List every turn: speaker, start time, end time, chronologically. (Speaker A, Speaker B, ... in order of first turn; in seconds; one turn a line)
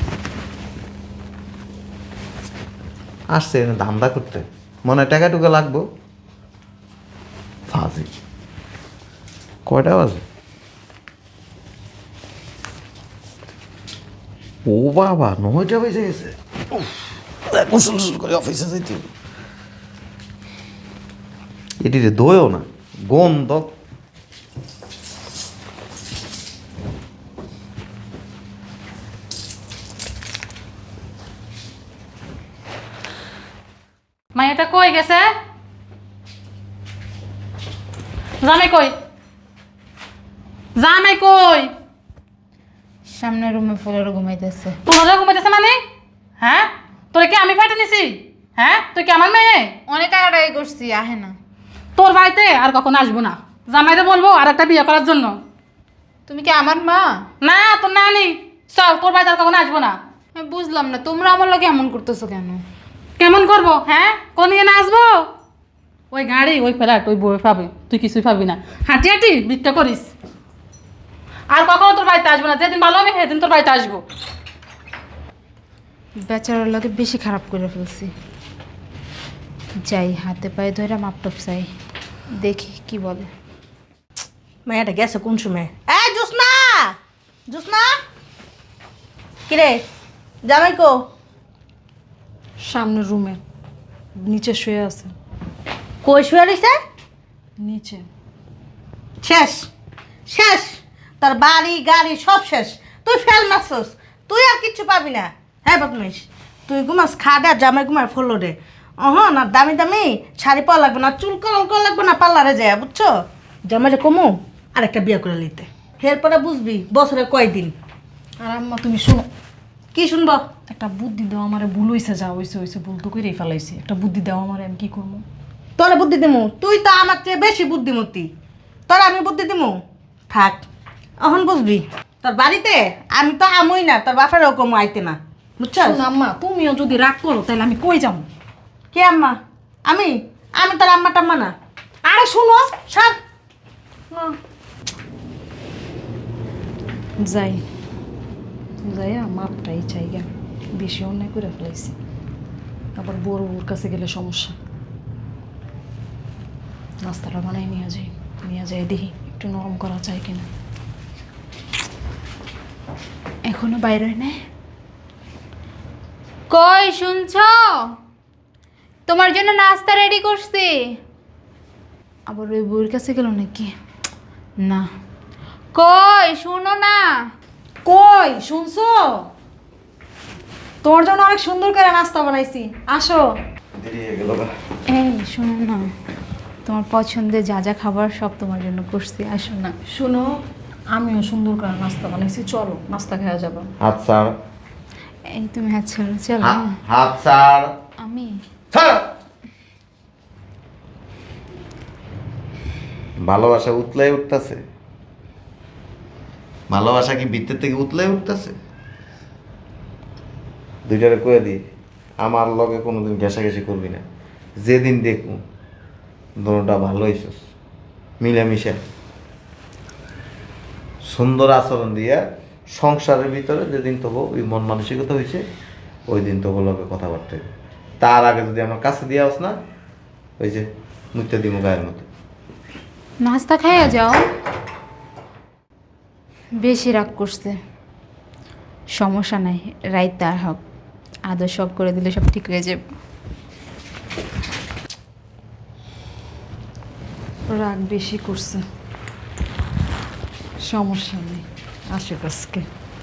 Speaker A: 3.3-5.9
Speaker A: 7.7-8.1
Speaker A: 9.7-10.2
Speaker A: 14.7-19.1
Speaker A: 21.8-23.7
Speaker B: 34.3-35.3
Speaker B: 38.4-38.9
Speaker B: 40.8-41.7
Speaker C: 43.1-44.8
Speaker B: 44.9-45.8
Speaker B: 46.4-49.8
Speaker C: 49.9-51.3
Speaker B: 52.0-55.4
Speaker C: 56.3-57.3
Speaker B: 57.4-60.0
Speaker C: 60.4-62.6
Speaker B: 63.2-65.3
Speaker B: 66.1-70.1
Speaker B: 71.5-74.0
Speaker C: 76.2-78.1
Speaker C: 79.8-81.7
Speaker C: 82.3-83.3
Speaker D: 84.7-87.0
Speaker D: 87.5-88.0
Speaker D: 89.5-89.8
Speaker D: 90.4-91.0
Speaker E: 92.6-93.4
Speaker E: 94.2-95.2
Speaker D: 96.0-96.8
Speaker E: 97.6-98.1
Speaker D: 99.2-99.7
Speaker D: 100.3-113.1
Speaker D: 113.7-117.7
Speaker E: 118.4-119.3
Speaker D: 119.9-120.4
Speaker E: 120.7-125.2
Speaker D: 125.8-128.3
Speaker D: 128.9-129.8
Speaker D: 130.3-130.7
Speaker D: 131.2-136.0
Speaker E: 135.8-138.3
Speaker D: 138.9-141.5
Speaker D: 142.8-143.2
Speaker E: 144.1-144.4
Speaker E: 147.2-147.6
Speaker E: 148.8-152.0
Speaker E: 153.0-154.6
Speaker E: 157.0-160.5
Speaker C: 163.5-164.3
Speaker C: 166.5-167.9
Speaker C: 169.1-170.8
Speaker C: 172.3-173.7
Speaker C: 174.6-174.8
Speaker C: 175.7-177.1
Speaker E: 177.8-179.3
Speaker E: 180.8-183.3
Speaker A: 183.8-184.5
Speaker C: 184.9-185.9
Speaker C: 186.7-189.8
Speaker E: 189.9-193.7
Speaker A: 193.8-194.3
Speaker C: 195.3-196.8
Speaker A: 196.4-197.7
Speaker C: 198.0-198.4
Speaker A: 198.7-199.1
Speaker A: 203.2-204.6
Speaker A: 206.7-208.6
Speaker A: 210.9-211.6
Speaker A: 212.2-214.0
Speaker A: 214.6-215.4
Speaker A: 216.4-217.4
Speaker A: 218.2-218.8
Speaker A: 221.0-225.4
Speaker A: 226.1-227.4
Speaker A: 228.0-229.6
Speaker A: 230.4-232.1
Speaker C: 233.2-234.2
Speaker C: 236.6-237.6
Speaker C: 239.0-240.6
Speaker C: 241.3-242.8
Speaker E: 247.5-248.7
Speaker E: 250.6-252.7